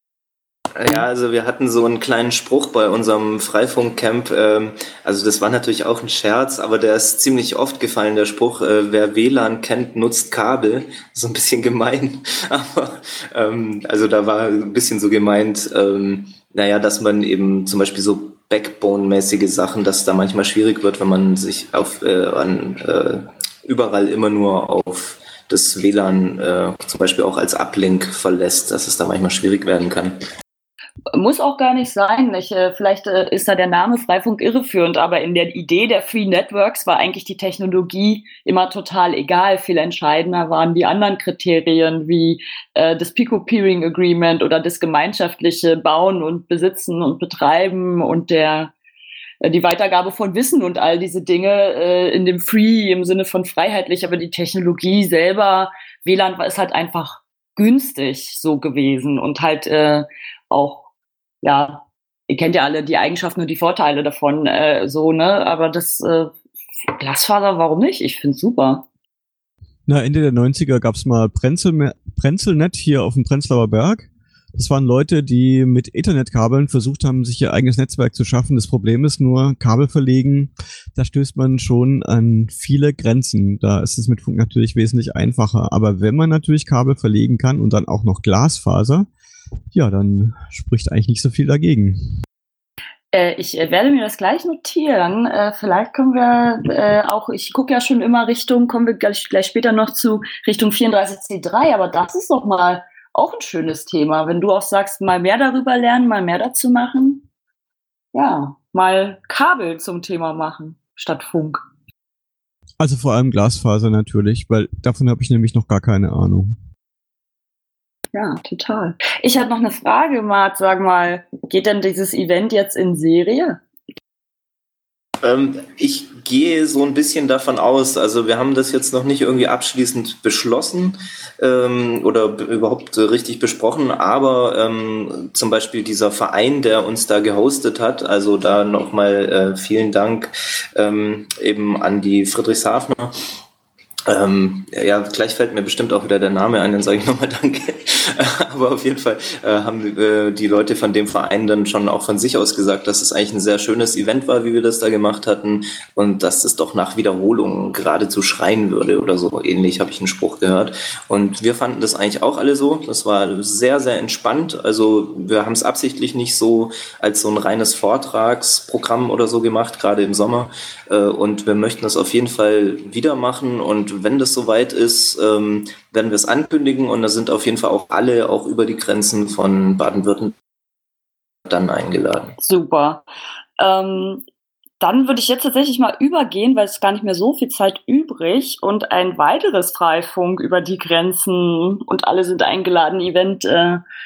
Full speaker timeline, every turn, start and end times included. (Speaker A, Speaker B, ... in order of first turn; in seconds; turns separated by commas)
Speaker A: 0.8-30.2, Speaker B: 31.1-48.7, Speaker B: 49.4-60.9, Speaker B: 61.4-66.3, Speaker B: 66.9-68.8, Speaker C: 69.9-89.1, Speaker C: 89.7-92.2, Speaker B: 93.1-107.2, Speaker B: 108.1-111.6, Speaker C: 112.8-116.5, Speaker B: 118.1-123.6, Speaker A: 125.2-143.1, Speaker A: 144.1-180.3, Speaker A: 181.5-182.3, Speaker B: 182.4-183.0, Speaker B: 183.6-184.2, Speaker B: 184.8-193.8